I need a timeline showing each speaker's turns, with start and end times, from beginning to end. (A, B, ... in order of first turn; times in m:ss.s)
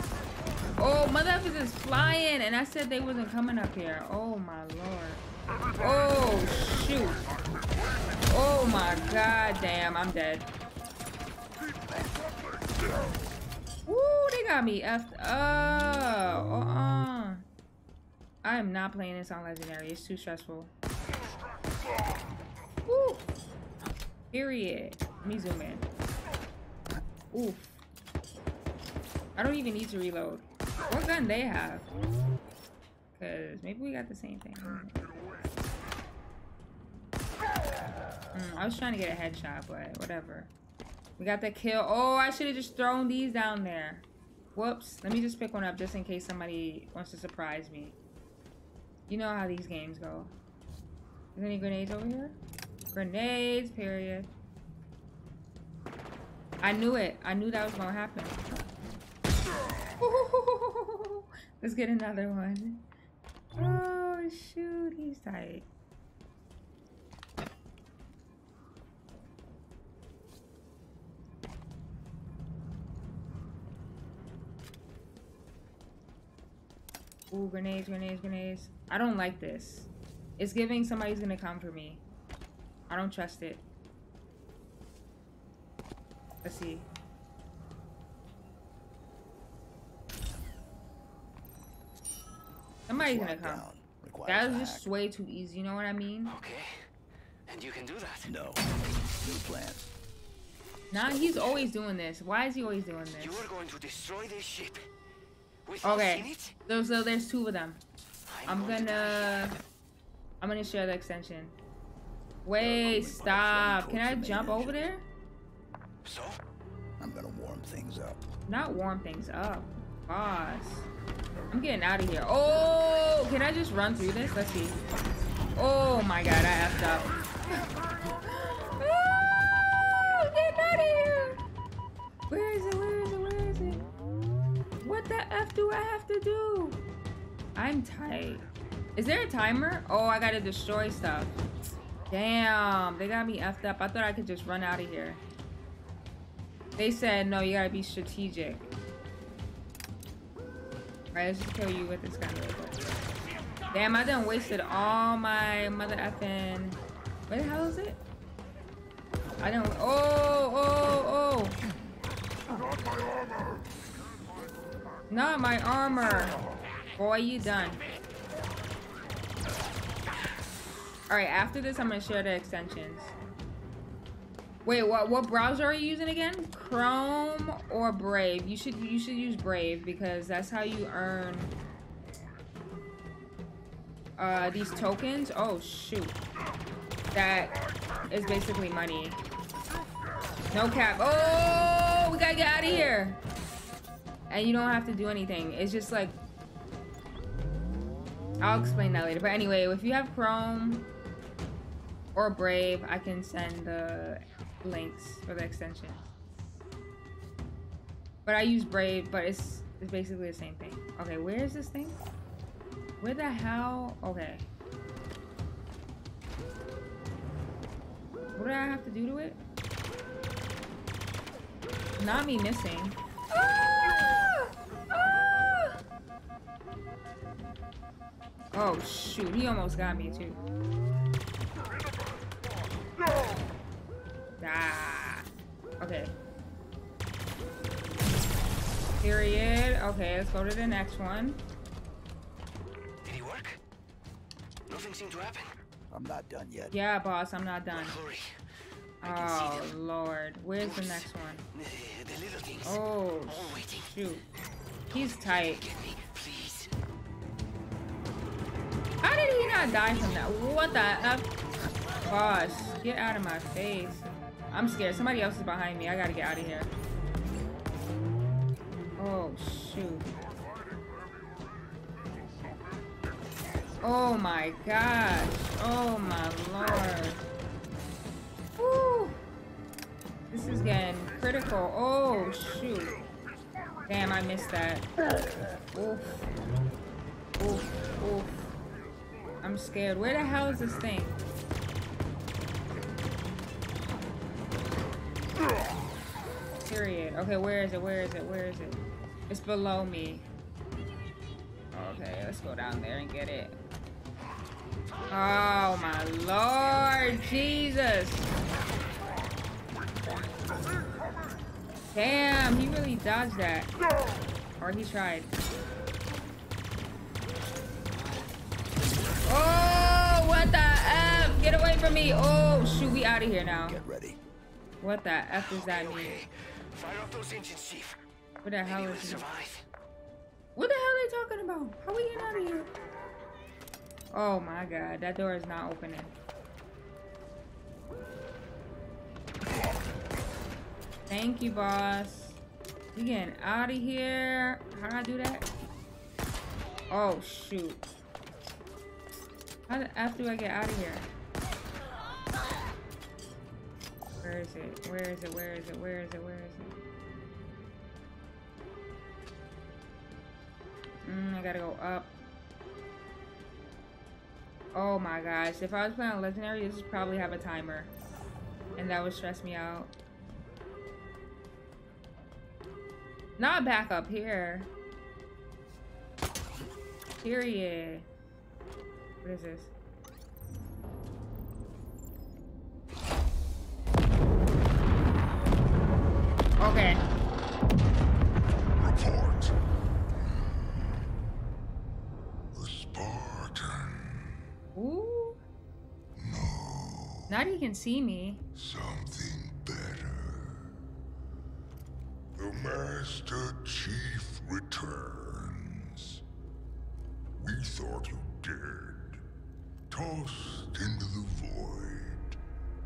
0:00.8-0:05.2 A
0:05.8-0:07.2 A
0:07.4-0:08.2 B
0:08.3-0:10.5 A
0:11.7-0:13.2 B
0:13.9-0:17.4 A
0:18.4-0:20.7 A
0:22.9-0:23.2 A
0:24.3-0:25.9 A
0:27.3-0:27.8 A
0:29.4-0:31.9 A
0:33.1-0:35.0 A
0:35.1-0:35.5 B
0:38.3-0:40.5 A
0:41.2-0:47.9 A
0:49.1-0:50.3 A
0:51.3-0:52.4 A
0:52.9-0:54.3 A
0:56.6-0:58.4 A
1:00.0-1:02.8 A
1:03.6-1:05.7 A
1:17.3-1:22.0 A
1:22.9-1:23.6 A
1:26.4-1:26.9 A
1:32.9-1:33.7 A
1:32.9-1:34.9 C
1:34.2-1:36.3 A
1:36.3-1:36.8 D
1:37.5-1:38.3 D
1:38.2-1:39.9 C
1:40.9-1:43.5 A
1:43.2-1:44.8 D
1:45.6-1:46.6 D
1:45.8-1:47.8 A
1:48.3-1:49.5 D
1:48.4-1:49.6 A
1:50.4-1:51.6 A
1:52.4-1:55.0 A
1:52.6-1:54.9 C
1:56.0-1:56.4 D
1:57.0-1:58.2 C
1:58.5-2:00.9 A
2:01.5-2:04.8 A
2:05.6-2:07.6 A
2:08.2-2:11.4 A
2:12.3-2:13.8 A
2:14.8-2:16.8 A
2:17.6-2:21.4 A
2:22.1-2:25.2 A
2:26.8-2:28.6 A
2:31.1-2:32.8 A
2:33.7-2:38.0 A
2:39.4-2:41.6 A
2:42.5-2:43.6 B
2:45.1-2:46.4 A
2:47.0-2:47.8 A
2:51.1-2:53.1 A
2:54.6-3:01.5 A
3:04.2-3:06.2 A
3:07.1-3:09.2 A
3:10.5-3:13.2 A
3:14.3-3:16.2 A
3:18.4-3:20.9 A
3:22.1-3:26.0 A
3:28.2-3:32.0 A
3:33.0-3:34.5 A
3:38.4-3:39.4 A
3:42.0-3:45.8 A
3:48.5-3:50.4 A
3:54.4-3:55.2 A
3:55.8-3:56.1 A
3:59.0-4:01.4 A
4:03.0-4:03.6 D
4:04.7-4:05.5 D
4:05.9-4:06.7 C
4:06.7-4:08.0 A
4:07.7-4:08.3 D
4:09.0-4:11.4 A
4:09.0-4:09.7 D
4:10.6-4:13.9 D
4:12.6-4:14.2 A
4:14.9-4:16.7 D
4:14.9-4:15.6 A
4:19.0-4:21.3 A
4:22.1-4:26.7 A
4:29.0-4:30.1 A
4:30.2-4:33.0 B
4:33.8-4:37.2 A
4:38.6-4:39.2 A
4:40.3-4:43.0 A
4:43.9-4:44.9 A
4:45.7-4:46.3 A
4:47.4-4:48.4 A
4:49.4-4:51.2 A
4:56.7-5:00.3 A
5:01.7-5:03.6 A
5:05.1-5:08.3 A
5:11.9-5:13.7 A
5:14.6-5:15.3 A
5:19.2-5:23.8 A
5:23.7-5:24.2 C
5:24.8-5:26.2 A
5:25.3-5:28.0 D
5:28.4-5:29.2 A
5:28.6-5:29.6 D
5:30.6-5:32.7 A
5:34.1-5:36.2 A
5:41.1-5:42.4 A
5:42.9-5:45.5 A
5:46.9-5:47.8 A
5:49.7-5:51.1 A
5:54.2-5:56.8 A
6:01.0-6:02.1 A
6:04.7-6:07.9 A
6:08.8-6:09.9 A
6:13.4-6:14.7 A
6:17.2-6:18.1 A
6:19.2-6:19.7 A
6:26.6-6:27.0 A
6:28.8-6:29.6 B
6:32.5-6:34.4 B
6:34.8-6:35.4 A
6:36.2-6:37.3 B
6:37.3-6:38.4 A
6:38.5-6:40.7 B
6:42.4-6:46.2 B
6:47.4-6:49.2 B
6:49.9-6:52.4 B